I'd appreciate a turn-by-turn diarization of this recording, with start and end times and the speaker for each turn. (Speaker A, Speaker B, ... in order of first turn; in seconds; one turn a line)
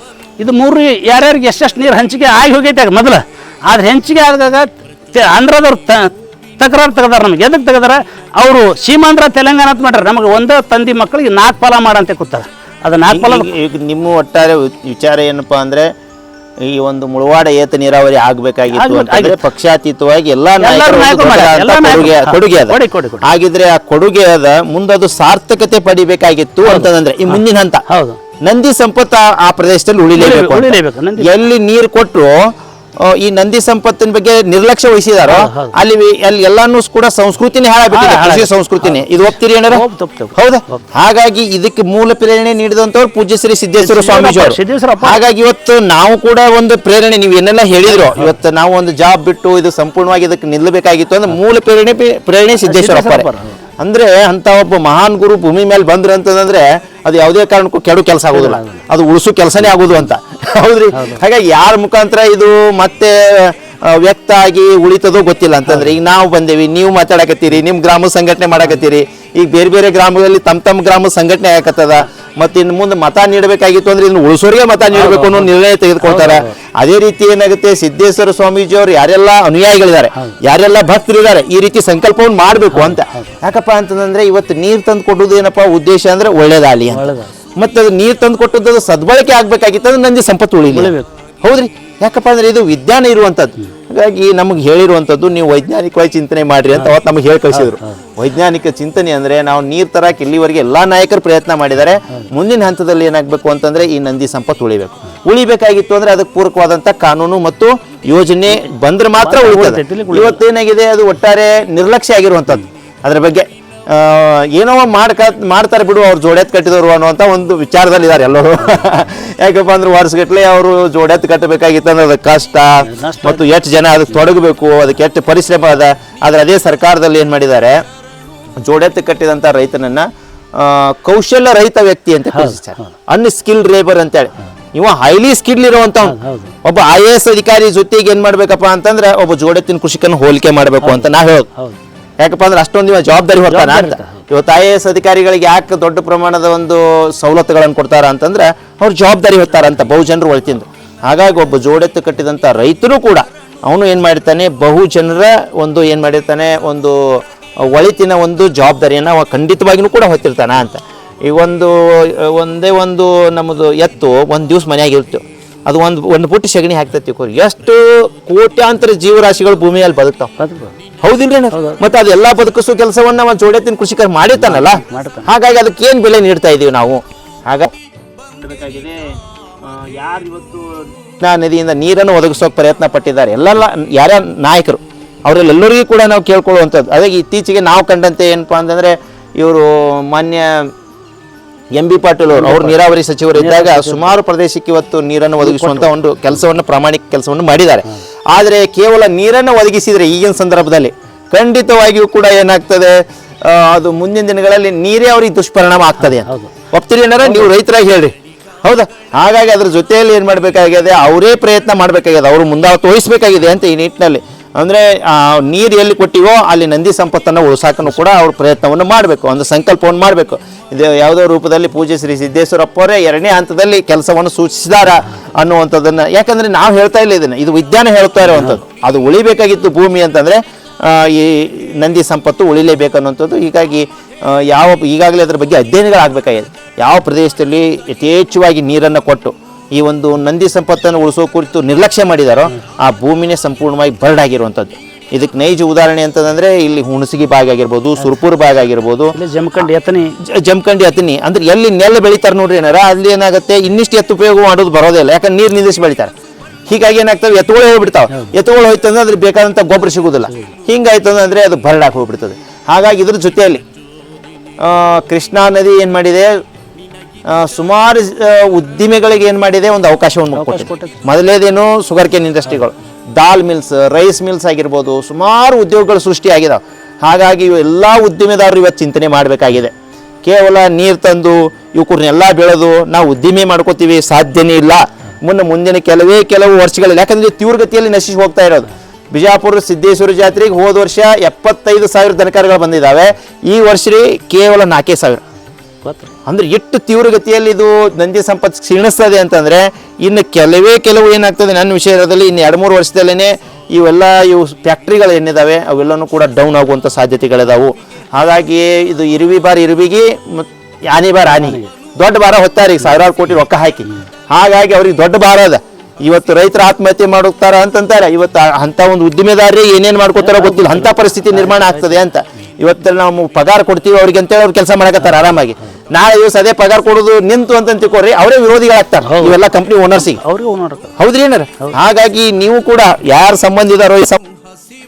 Speaker A: 0.4-13.5
Speaker B: 13.1-15.9
Speaker B: 16.7-27.8
Speaker A: 18.7-19.4
Speaker A: 20.6-23.3
Speaker A: 26.6-28.2
Speaker B: 28.4-32.3
Speaker A: 30.1-31.3
Speaker B: 33.0-39.8
Speaker A: 35.2-35.7
Speaker A: 37.9-40.8
Speaker B: 40.4-53.3
Speaker A: 43.8-45.2
Speaker A: 47.9-48.3
Speaker A: 52.6-53.6
Speaker B: 53.8-127.8
Speaker A: 58.3-58.8
Speaker A: 60.9-61.2
Speaker A: 65.7-65.9
Speaker A: 74.9-75.5
Speaker A: 76.0-76.5
Speaker A: 82.7-83.3
Speaker A: 86.9-87.3
Speaker A: 90.7-91.1
Speaker A: 97.5-98.0
Speaker A: 109.2-110.4
Speaker A: 122.8-123.4
Speaker B: 128.6-141.5
Speaker A: 132.3-132.9
Speaker A: 136.0-136.5
Speaker B: 142.2-170.3
Speaker A: 143.5-144.2
Speaker A: 170.4-170.7
Speaker B: 171.0-177.7
Speaker A: 171.5-171.8
Speaker A: 174.3-175.3
Speaker B: 178.4-179.0
Speaker B: 179.6-190.7
Speaker B: 191.8-208.1
Speaker A: 192.3-192.8
Speaker A: 193.3-194.1
Speaker A: 195.4-195.9
Speaker A: 206.0-206.5
Speaker A: 207.2-207.5
Speaker B: 208.6-249.7
Speaker A: 249.1-250.1
Speaker B: 250.2-256.1
Speaker B: 256.7-263.6
Speaker B: 264.6-266.4
Speaker B: 267.3-295.2
Speaker A: 270.3-271.0
Speaker A: 295.8-296.1
Speaker B: 296.2-330.2
Speaker A: 311.3-311.7
Speaker A: 320.2-322.0
Speaker A: 329.0-329.4
Speaker A: 330.0-330.9
Speaker B: 331.0-334.4